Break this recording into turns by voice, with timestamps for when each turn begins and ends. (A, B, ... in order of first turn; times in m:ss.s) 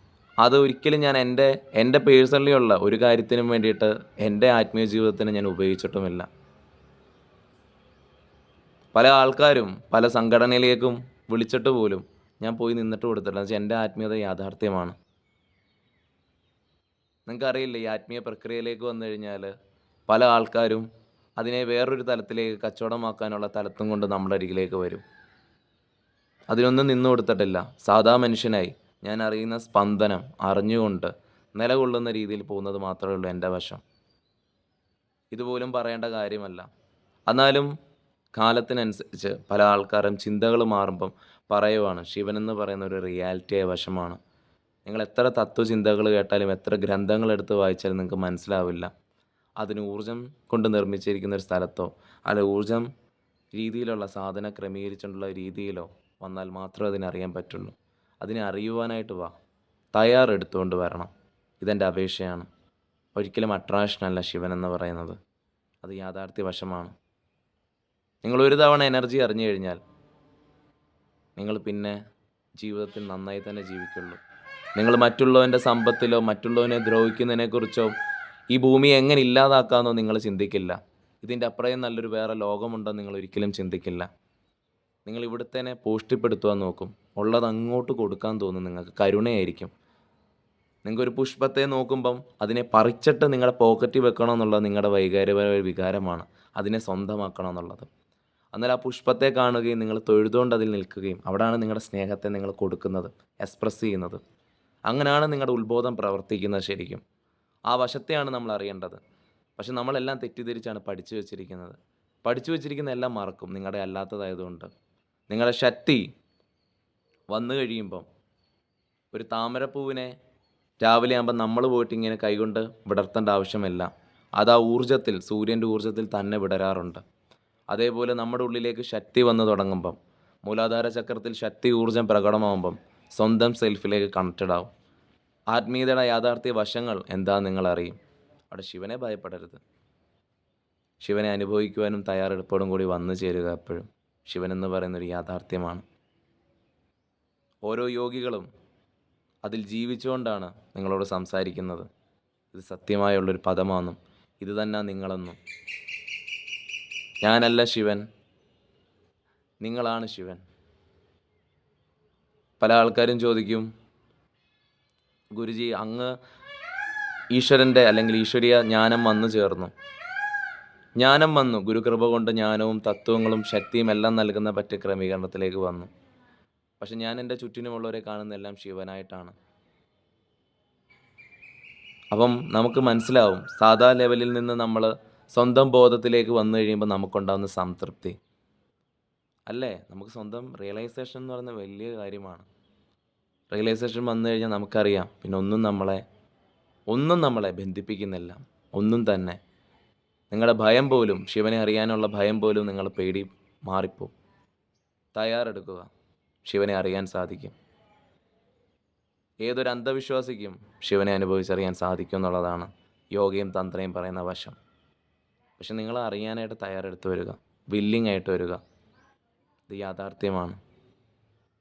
0:00.4-0:06.3 A
0:08.9-0:14.9 A
0:17.3-0:19.5 A
0:20.1-0:20.8 A
0:21.4-0:25.0 A
0:26.5-0:33.8 A
0:35.3-0:36.6 A
0:37.3-0:37.7 A
0:38.4-0:44.2 A
0:44.8-0:48.9 A
0:49.6-0:52.9 A
0:53.5-0:59.3 A
0:59.9-1:01.1 A
1:01.6-1:02.5 A
1:03.1-1:05.2 A
1:05.8-1:06.9 A
1:08.2-1:09.8 A
1:11.4-1:12.0 A
1:12.6-1:14.2 A
1:14.8-1:17.9 A
1:18.5-1:24.1 A
1:25.0-1:29.7 A
1:30.8-1:37.9 A
1:38.5-1:44.2 A
1:44.9-1:47.0 A
1:47.7-1:49.0 A
1:49.6-1:54.7 A
1:55.3-1:56.0 A
1:57.3-1:58.0 A
1:59.1-2:00.1 A
2:00.8-2:07.0 A
2:07.7-2:14.7 A
2:15.5-2:18.0 A
2:18.5-2:19.6 A
2:21.0-2:25.8 A
2:27.6-2:28.4 A
2:29.4-2:31.8 A
2:32.5-2:35.4 A
2:37.2-2:38.0 A
2:39.6-2:40.4 A
2:42.6-2:43.6 A
2:45.3-2:46.1 A
2:47.3-2:49.7 A
2:51.0-2:55.9 A
2:56.8-2:59.3 A
3:02.1-3:08.2 A
3:09.5-3:12.4 A
3:13.5-3:16.0 A
3:16.9-3:19.4 A
3:20.3-3:24.1 A
3:25.1-3:25.9 A
3:26.4-3:27.5 A
3:29.4-3:34.6 A
3:35.6-3:38.6 A
3:39.7-3:40.6 A